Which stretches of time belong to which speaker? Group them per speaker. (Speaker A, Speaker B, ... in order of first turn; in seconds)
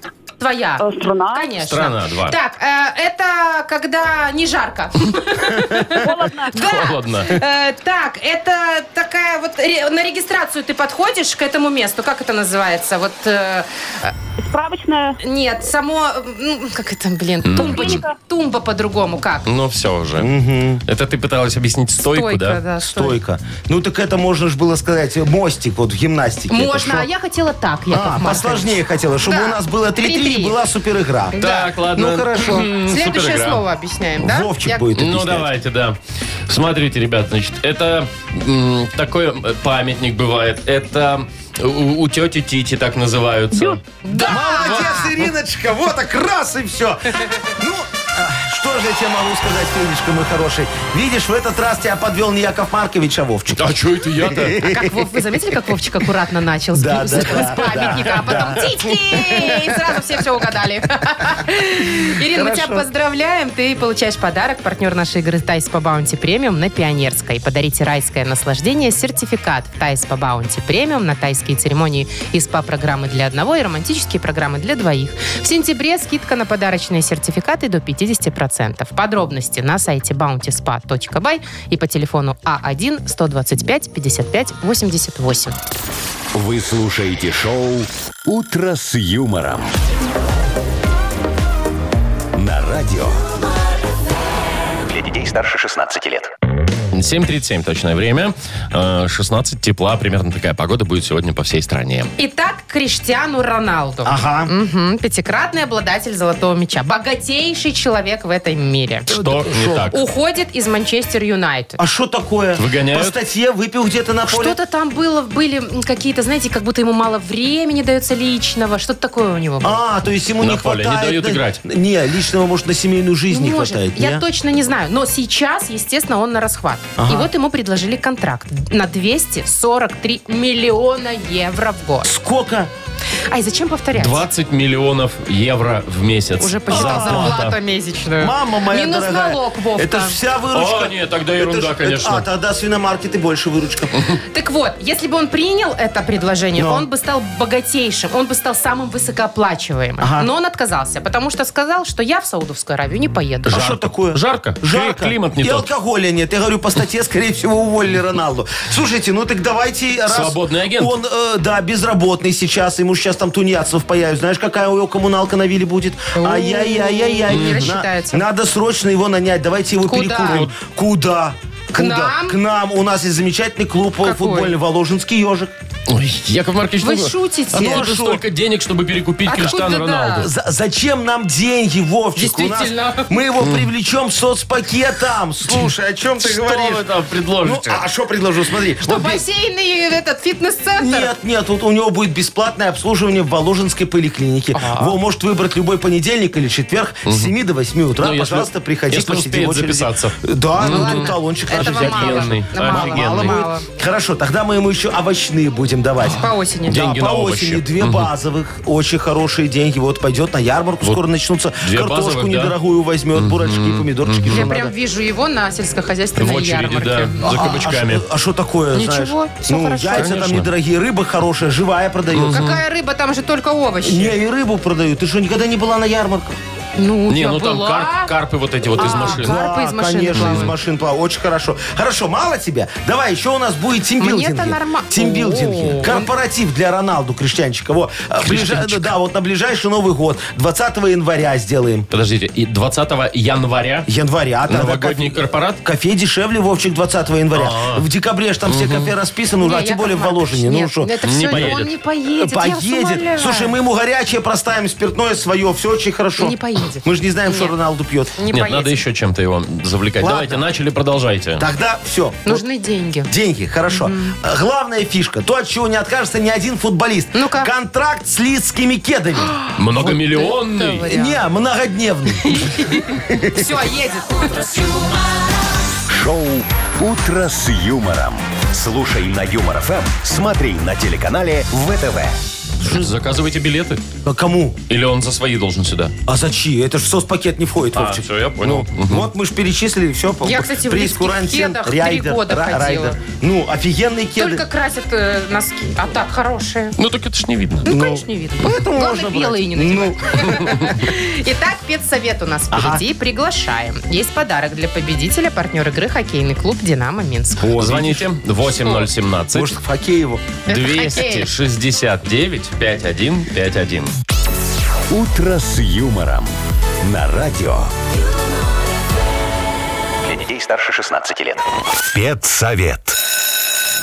Speaker A: 0.4-14.1, 15.2-19.5, 22.0-23.2, 26.5-30.6, 31.3-31.7, 32.6-34.9, 44.0-45.1, 54.6-85.6, 102.2-109.1, 109.9-111.8, 114.3-119.8, 123.3-132.1, 133.3-134.2, 136.4-140.2, 144.3-153.6, 166.1-168.2, 169.9-170.4, 171.7-172.4, 174.0-174.6, 176.8-177.9, 179.2-180.3, 182.2-183.1, 188.8-191.1, 194.5-194.9, 200.6-203.7, 206.1-206.8, 214.3-217.6, 218.7-220.1, 222.3-224.2, 226.8-228.1, 228.8-230.5, 234.0-236.1, 249.4-253.6, 256.2-257.5, 258.1-258.8, 262.2-263.1, 263.7-264.1, 267.1-267.5, 269.2-271.2, 272.2-274.3, 290.2-293.0, 294.1-296.8, 297.6-307.5, 308.5-308.9, 310.5-311.3
Speaker B: 0.8-1.5, 5.9-6.5, 14.4-15.1, 17.6-18.1, 274.1-275.4
Speaker C: 1.6-2.3, 6.5-7.3, 17.4-18.0, 19.4-20.3, 20.9-22.6, 31.4-33.6, 34.9-44.0, 53.6-54.6, 57.3-58.7, 96.9-102.1, 109.1-110.0, 112.5-113.2, 120.4-121.6, 134.0-137.6, 140.5-142.2, 153.5-155.7, 160.1-160.9, 167.3-167.7, 170.3-170.5, 175.9-180.3, 183.4-183.7, 186.2-187.8, 197.1-197.3, 198.0-203.4, 206.7-208.1, 211.6-212.6, 213.1-214.5, 216.2-218.0, 219.9-220.5, 222.1-222.6, 227.1-229.4, 230.1-230.5, 238.2-238.9, 241.9-243.9, 244.5-245.6, 247.3-247.8, 248.4-248.9, 251.0-251.7, 258.3-261.4, 269.6-270.9, 282.6-283.8, 284.7-285.9, 287.7-289.1, 296.8-297.7, 307.5-309.5, 310.5-313.9
Speaker D: 20.1-20.8, 22.8-27.1, 27.9-32.7, 34.2-35.5, 44.2-55.2, 56.7-60.0, 62.2-62.9, 104.0-104.5, 109.1-109.9, 111.8-114.6, 119.6-124.2, 127.0-127.3, 132.0-132.7, 136.7-137.4, 138.2-143.9, 146.6-146.9, 150.0-150.3, 153.5-175.5, 177.5-178.2, 180.1-186.9, 187.4-189.2, 190.8-214.7, 217.2-222.5, 223.8-226.4, 228.8-241.9, 243.9-251.6, 252.2-258.1, 260.0-260.4, 261.4-262.4, 263.1-269.4, 270.9-273.6, 282.6-282.9, 284.0-284.6, 286.1-294.4, 297.6-300.6, 302.5-302.8, 307.6-308.0, 309.3-310.3
Speaker E: 86.3-89.7, 92.3-93.2, 275.9-282.2, 314.9-317.7, 321.9-323.0
Speaker F: 94.9-96.3, 320.0-321.4